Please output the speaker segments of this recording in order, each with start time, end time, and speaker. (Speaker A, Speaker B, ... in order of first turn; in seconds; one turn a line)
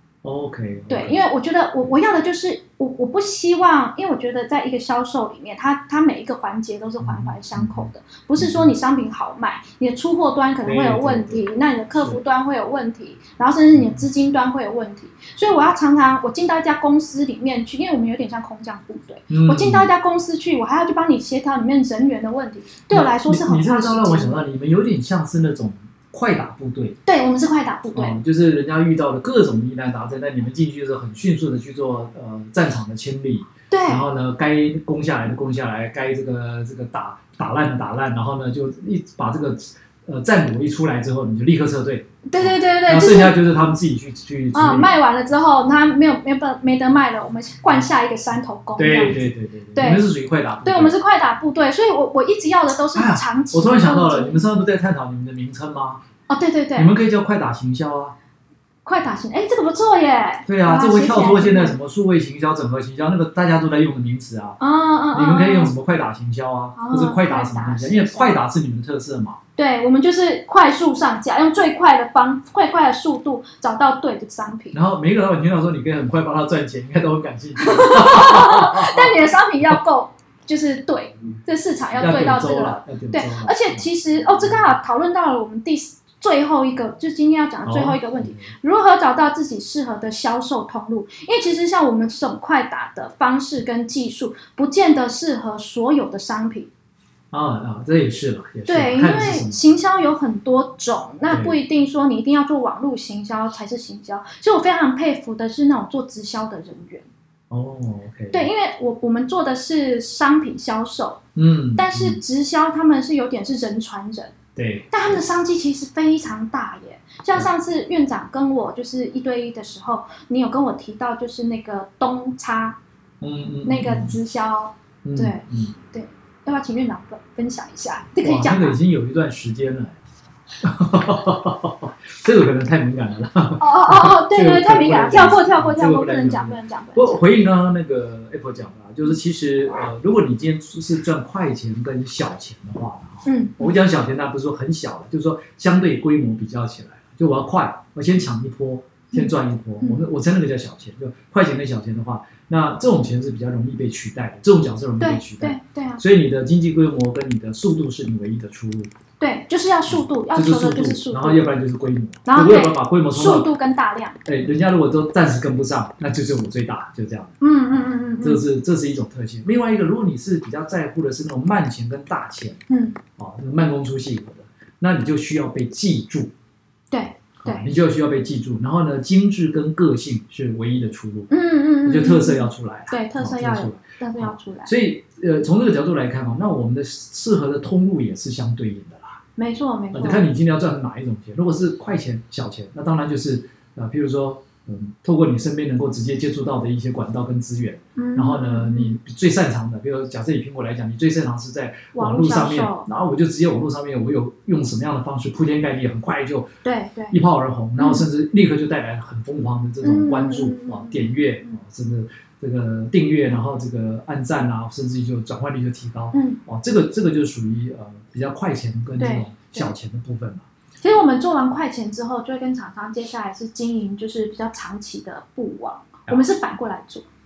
Speaker A: 0.2-1.2
Speaker B: 0.9-24.4
Speaker A: 7.0-7.9
Speaker A: 8.4-8.7
Speaker A: 10.6-12.2
Speaker A: 13.8-14.0
Speaker A: 19.3-19.9
Speaker A: 22.9-27.0
Speaker B: 27.1-28.2
Speaker A: 27.9-45.0
Speaker B: 33.7-34.0
Speaker B: 42.3-43.4
Speaker B: 44.5-50.0
Speaker A: 48.8-50.9
Speaker B: 50.6-54.4
Speaker A: 52.9-56.0
Speaker B: 56.3-56.9
Speaker A: 56.8-58.1
Speaker B: 58.9-61.8
Speaker A: 60.5-64.6
Speaker B: 64.6-65.7
Speaker A: 65.1-69.4
Speaker B: 66.8-68.4
Speaker B: 69.6-74.8
Speaker A: 74.7-79.3
Speaker B: 77.6-96.7
Speaker A: 82.0-83.9
Speaker A: 87.6-88.5
Speaker A: 97.3-99.6
Speaker B: 98.7-107.1
Speaker A: 101.3-101.6
Speaker A: 107.5-108.5
Speaker B: 108.3-111.2
Speaker A: 111.4-112.2
Speaker B: 111.8-114.3
Speaker A: 114.6-114.9
Speaker B: 114.9-122.8
Speaker A: 123.2-124.2
Speaker B: 123.7-128.8
Speaker A: 125.0-125.8
Speaker A: 128.2-130.0
Speaker A: 130.6-158.9
Speaker B: 133.6-137.2
Speaker B: 143.3-143.8
Speaker B: 149.1-150.0
Speaker B: 155.0-156.0
Speaker B: 159.2-161.5
Speaker A: 159.9-163.5
Speaker B: 162.2-164.2
Speaker A: 164.2-167.3
Speaker B: 167.4-168.4
Speaker A: 168.2-172.6
Speaker B: 172.7-173.0
Speaker A: 173.2-176.3
Speaker B: 176.9-177.7
Speaker A: 177.4-181.3
Speaker B: 181.3-184.7
Speaker A: 181.8-189.2
Speaker B: 189.4-190.3
Speaker A: 189.9-206.5
Speaker B: 198.0-199.0
Speaker B: 201.9-202.9
Speaker B: 206.6-207.2
Speaker A: 207.1-220.4
Speaker B: 207.8-208.1
Speaker B: 209.8-211.6
Speaker B: 216.1-216.4
Speaker B: 219.0-219.7
Speaker B: 220.8-227.1